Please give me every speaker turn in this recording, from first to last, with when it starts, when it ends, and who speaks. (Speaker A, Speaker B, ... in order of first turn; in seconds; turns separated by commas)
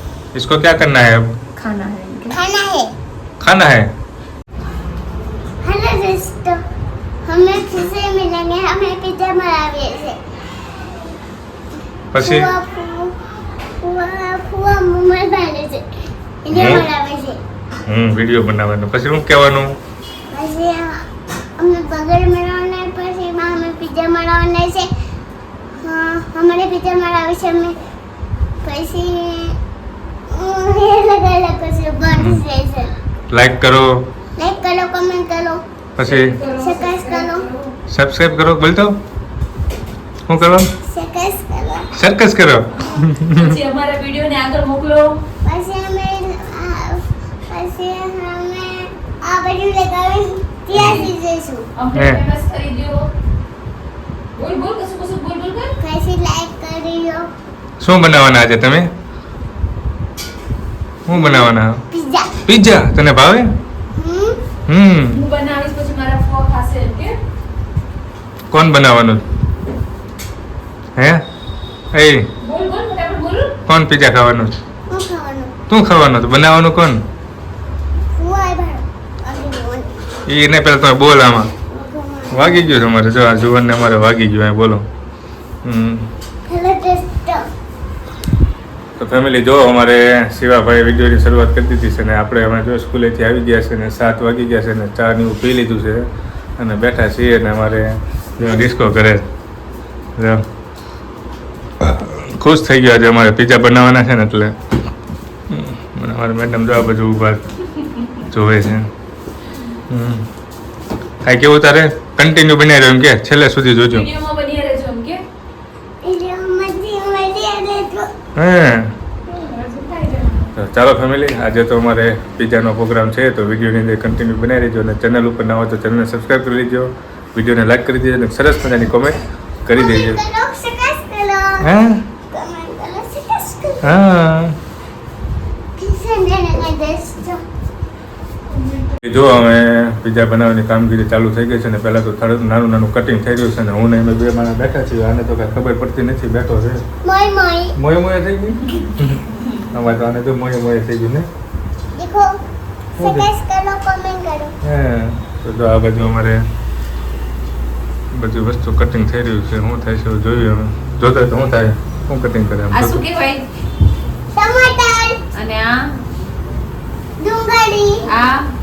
Speaker A: 0.3-1.4, Speaker B: 1.6-2.4, Speaker C: 2.3-2.9, Speaker A: 3.4-3.9, Speaker C: 5.6-6.6, Speaker C: 7.2-10.2, Speaker A: 12.1-12.5, Speaker C: 12.2-13.1, Speaker C: 13.8-15.9, Speaker C: 16.4-17.4, Speaker A: 16.5-16.9, Speaker A: 17.9-19.8, Speaker C: 20.3-21.0, Speaker C: 21.6-24.9, Speaker C: 25.8-27.8, Speaker C: 28.6-29.6, Speaker C: 30.3-32.9, Speaker A: 32.1-32.4, Speaker A: 33.3-34.0, Speaker C: 34.4-35.6, Speaker A: 36.0-36.4, Speaker B: 36.0-37.7, Speaker C: 36.5-37.5, Speaker A: 37.9-39.0, Speaker A: 40.3-40.7, Speaker C: 40.8-41.9, Speaker A: 41.9-43.6, Speaker B: 43.3-45.2, Speaker C: 45.4-51.6, Speaker A: 50.7-51.0, Speaker B: 50.7-51.1, Speaker B: 51.7-53.1, Speaker A: 51.9-52.2, Speaker B: 54.3-55.7, Speaker C: 55.8-57.3, Speaker A: 57.8-58.9, Speaker A: 61.0-61.8, Speaker C: 61.1-62.3, Speaker A: 62.4-63.5, Speaker C: 64.0-64.4, Speaker A: 64.7-65.2, Speaker B: 65.1-67.2, Speaker A: 68.5-69.2, Speaker A: 71.0-71.2, Speaker A: 71.9-72.3, Speaker B: 72.4-73.5, Speaker A: 73.7-74.5, Speaker C: 74.9-75.5, Speaker A: 75.7-77.0, Speaker C: 78.2-79.9, Speaker A: 80.3-81.5, Speaker C: 81.7-82.8, Speaker A: 82.3-84.8, Speaker A: 85.6-86.1, Speaker C: 86.5-87.5, Speaker A: 89.0-96.1, Speaker A: 96.6-99.2, Speaker A: 100.2-100.4, Speaker A: 101.8-104.6, Speaker A: 105.5-107.4, Speaker A: 108.2-108.9, Speaker A: 109.9-110.3, Speaker A: 111.2-114.1, Speaker B: 113.9-115.2, Speaker C: 116.0-118.1, Speaker A: 118.3-118.9, Speaker B: 119.3-120.5, Speaker A: 120.5-130.2, Speaker C: 129.7-131.7, Speaker A: 131.6-132.1, Speaker C: 132.3-134.0, Speaker A: 133.8-134.6, Speaker C: 135.8-137.4, Speaker A: 139.0-146.8, Speaker C: 147.0-147.7, Speaker A: 147.8-151.3, Speaker C: 151.9-152.3, Speaker A: 153.0-153.3, Speaker C: 153.0-154.5, Speaker A: 154.6-156.4, Speaker A: 158.1-163.0, Speaker B: 162.7-163.5, Speaker C: 164.3-165.2, Speaker B: 165.3-165.9, Speaker C: 167.2-168.1, Speaker B: 168.1-168.5